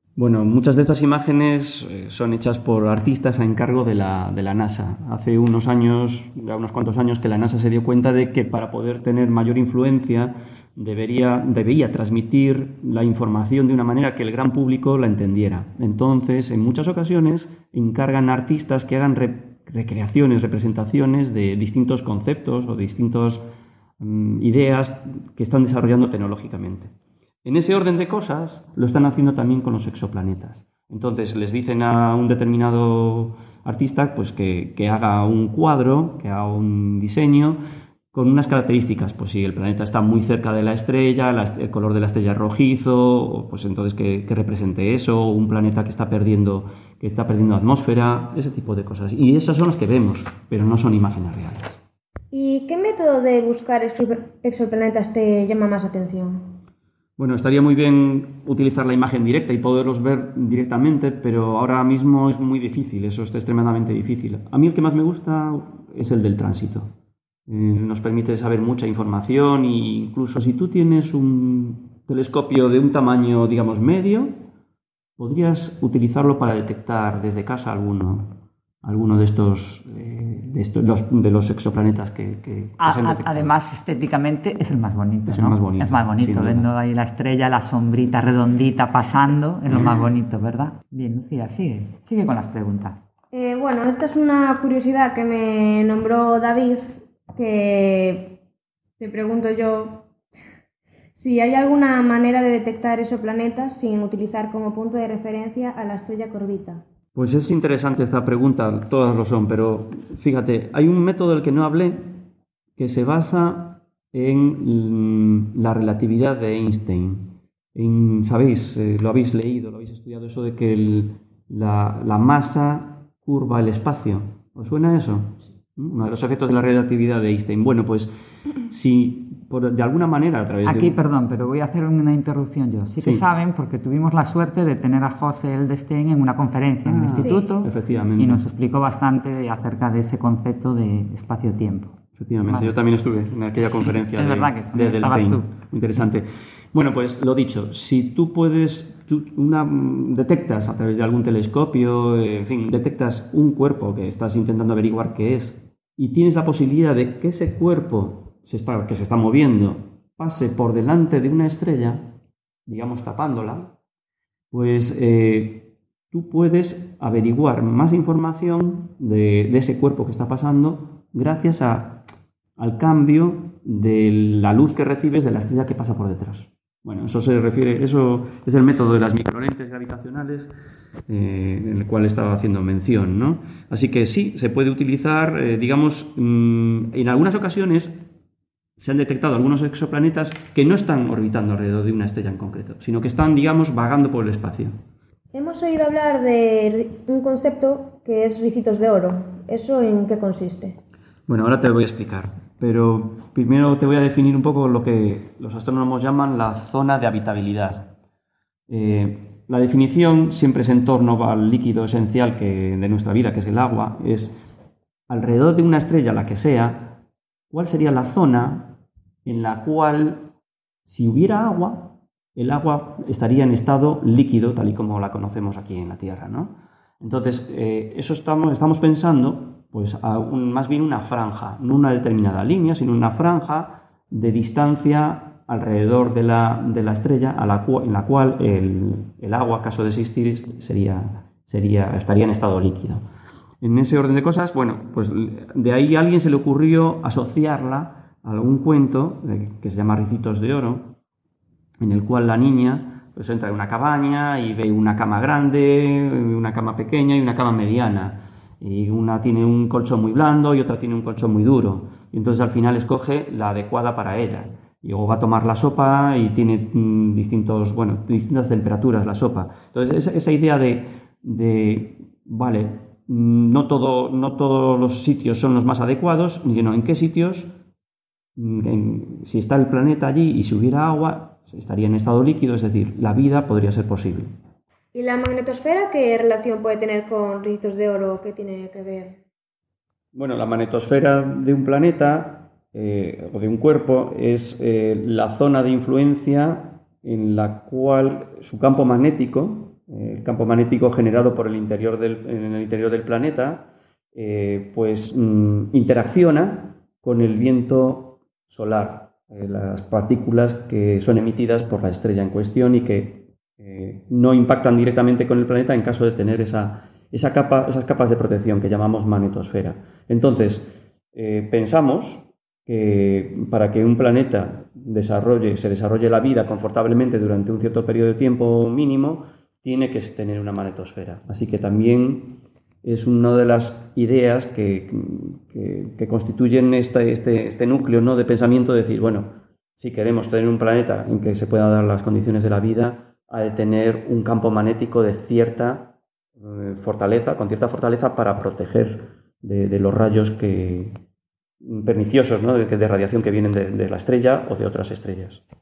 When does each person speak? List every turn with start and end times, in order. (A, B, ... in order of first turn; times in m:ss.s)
0:00.2-0:23.5 A
0:24.0-0:26.9 A
0:27.4-0:37.6 A
0:38.1-0:51.8 A
0:52.3-0:56.5 B
0:57.2-1:06.9 A
1:07.5-1:14.4 A
1:15.2-1:23.5 A
1:22.8-1:33.0 C
1:25.3-1:26.7 A
1:33.3-1:38.4 B
1:39.0-1:40.1 B
1:41.2-1:46.8 B
1:47.2-1:52.3 A
1:52.8-2:08.1 A
2:08.6-2:11.0 A
2:10.6-2:22.7 C
2:16.9-2:18.4 A
2:17.2-2:17.5 B
2:22.2-2:42.2 A
2:23.6-2:25.5 C
2:42.7-2:43.7 A
2:44.5-2:52.1 A
2:52.6-3:00.5 A
3:01.1-3:08.0 A
3:08.8-3:14.8 A
3:15.3-3:20.8 B
3:21.3-3:27.9 A
3:28.7-3:34.4 A
3:35.1-3:40.3 A
3:40.9-4:03.0 A
4:03.6-4:11.0 A
4:11.8-4:37.5 A
4:38.4-4:44.4 A
4:44.9-4:49.2 B
4:50.1-5:50.9 A
5:51.6-5:55.4 A